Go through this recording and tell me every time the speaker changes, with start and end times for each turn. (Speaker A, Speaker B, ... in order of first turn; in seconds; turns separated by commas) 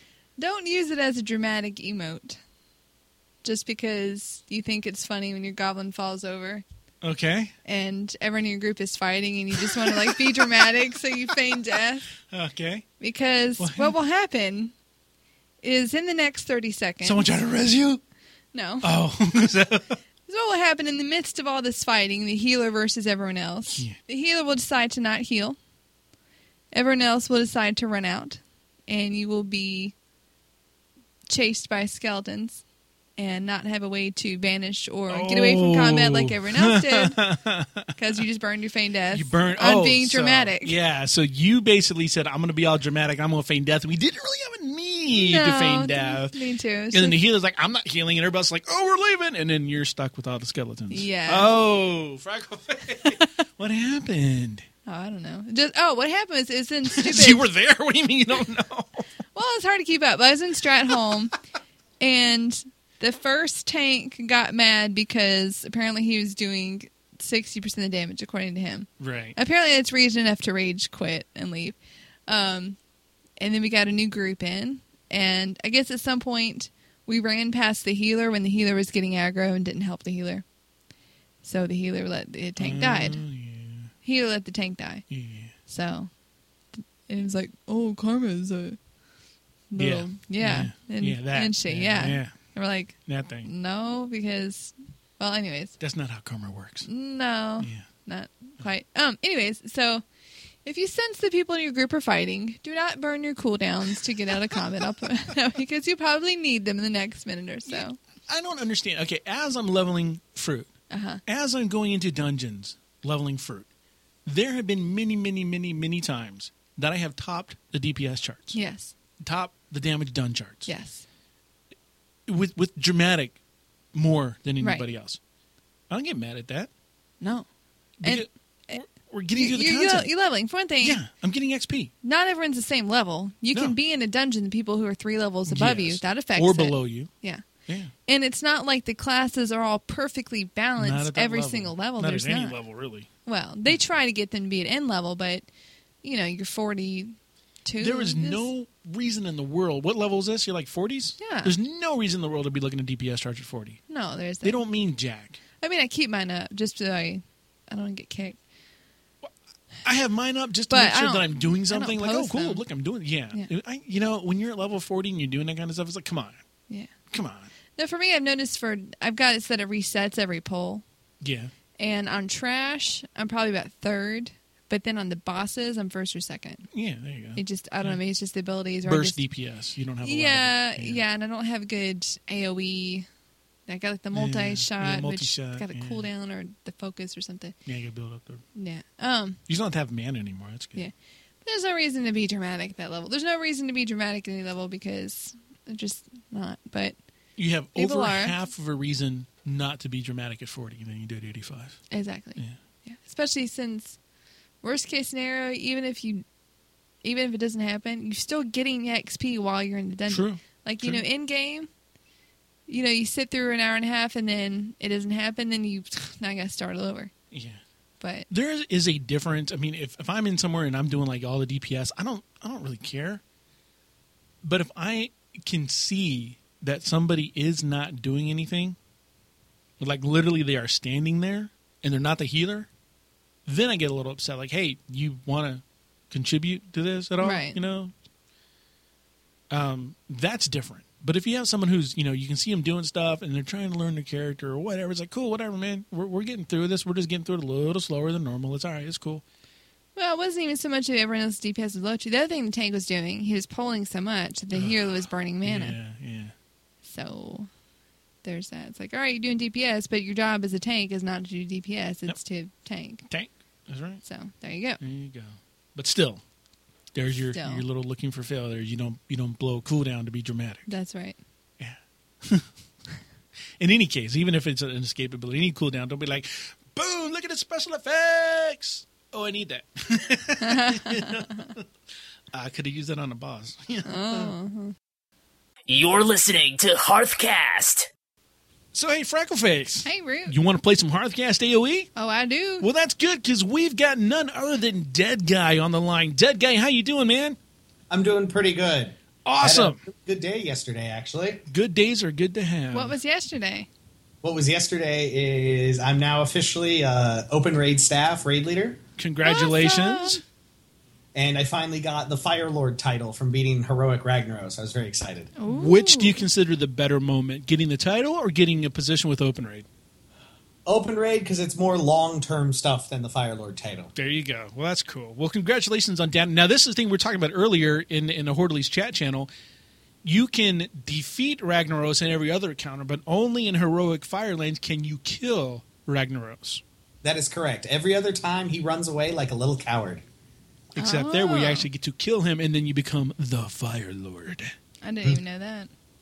Speaker A: 0.4-2.4, Speaker A: 3.4-6.6, Speaker B: 7.0-7.5, Speaker A: 7.6-12.1, Speaker B: 9.7-10.7, Speaker B: 12.3-12.8, Speaker A: 13.0-14.7, Speaker B: 13.6-13.9, Speaker A: 15.6-17.2, Speaker B: 17.0-18.0, Speaker A: 18.5-18.9, Speaker B: 18.8-20.0, Speaker A: 20.3-25.6, Speaker B: 23.7-24.0, Speaker A: 26.7-29.9, Speaker A: 31.3-32.6, Speaker A: 33.2-37.2, Speaker B: 35.1-37.9, Speaker A: 38.0-40.8, Speaker B: 39.1-46.4, Speaker A: 45.1-47.2, Speaker B: 46.9-54.6, Speaker A: 50.9-51.5, Speaker A: 54.9-57.5, Speaker B: 56.9-59.0, Speaker A: 59.3-61.3, Speaker A: 62.0-71.8, Speaker B: 69.0-69.4, Speaker A: 72.3-72.8, Speaker A: 73.4-80.4, Speaker A: 81.4-83.2, Speaker B: 82.6-83.9, Speaker A: 84.0-85.0, Speaker B: 85.1-85.5, Speaker A: 85.7-86.1, Speaker A: 86.7-88.8, Speaker A: 89.7-95.8, Speaker B: 89.8-92.3, Speaker B: 93.0-93.5, Speaker B: 95.8-96.9, Speaker A: 96.8-100.0, Speaker B: 97.6-97.8, Speaker A: 100.6-108.0, Speaker B: 107.7-110.7, Speaker A: 110.9-111.2, Speaker B: 111.2-113.7, Speaker B: 114.2-118.6, Speaker A: 118.5-118.9, Speaker B: 119.2-120.7, Speaker A: 120.7-121.0, Speaker B: 122.3-123.4, Speaker B: 123.9-125.2, Speaker A: 124.6-124.8, Speaker B: 125.9-126.7, Speaker A: 127.2-127.5, Speaker B: 128.0-130.1, Speaker A: 128.0-128.8, Speaker A: 129.3-131.0, Speaker B: 130.8-131.9, Speaker A: 132.0-137.4, Speaker B: 135.5-137.1, Speaker B: 137.7-137.9, Speaker A: 138.1-142.6, Speaker B: 140.8-143.1, Speaker A: 143.2-145.5, Speaker A: 146.0-148.5, Speaker B: 147.8-153.8, Speaker A: 151.2-151.5, Speaker A: 153.9-154.6, Speaker B: 154.4-155.4, Speaker A: 155.6-158.4, Speaker B: 159.8-166.4, Speaker A: 160.7-162.6, Speaker B: 167.1-167.5, Speaker A: 167.8-170.8, Speaker B: 171.2-171.5, Speaker A: 171.8-176.7, Speaker B: 176.7-178.0, Speaker A: 177.3-179.2, Speaker B: 178.8-181.0, Speaker A: 180.0-183.1, Speaker A: 183.7-187.6, Speaker B: 184.1-186.1, Speaker B: 187.7-188.4, Speaker A: 188.5-189.4, Speaker B: 189.5-190.8, Speaker A: 191.4-197.0, Speaker B: 197.4-201.8, Speaker A: 197.7-198.3, Speaker A: 201.9-204.0, Speaker A: 204.6-206.2, Speaker A: 207.0-211.7, Speaker B: 210.1-211.0, Speaker A: 212.7-217.1, Speaker B: 217.3-217.6, Speaker A: 218.0-218.3, Speaker B: 218.3-223.2, Speaker B: 224.4-228.8, Speaker B: 229.8-232.7, Speaker B: 233.4-237.9, Speaker A: 237.2-237.6, Speaker B: 239.5-249.2, Speaker A: 249.9-255.8, Speaker B: 255.4-256.3, Speaker A: 256.8-257.5, Speaker A: 258.2-263.1, Speaker B: 263.1-264.0, Speaker A: 264.0-264.8, Speaker B: 264.8-266.2, Speaker B: 266.9-270.6, Speaker A: 267.3-267.6, Speaker A: 270.7-271.2, Speaker B: 271.6-272.5, Speaker B: 273.6-281.7, Speaker A: 280.4-281.5, Speaker B: 282.3-284.3, Speaker A: 283.8-284.7, Speaker C: 285.7-287.9, Speaker B: 288.7-291.9, Speaker A: 289.8-290.3, Speaker A: 291.9-292.7, Speaker B: 292.6-297.4, Speaker D: 297.9-301.4, Speaker B: 299.2-299.8, Speaker B: 301.5-302.9, Speaker A: 302.7-303.7, Speaker D: 304.2-308.8, Speaker B: 309.0-310.2, Speaker A: 309.2-310.2, Speaker D: 311.1-315.3, Speaker A: 315.4-316.2, Speaker B: 315.5-319.6, Speaker D: 320.6-323.9, Speaker B: 323.9-329.3, Speaker B: 330.0-336.6, Speaker D: 337.0-340.0, Speaker B: 340.8-344.5, Speaker A: 340.8-341.7, Speaker A: 344.8-345.7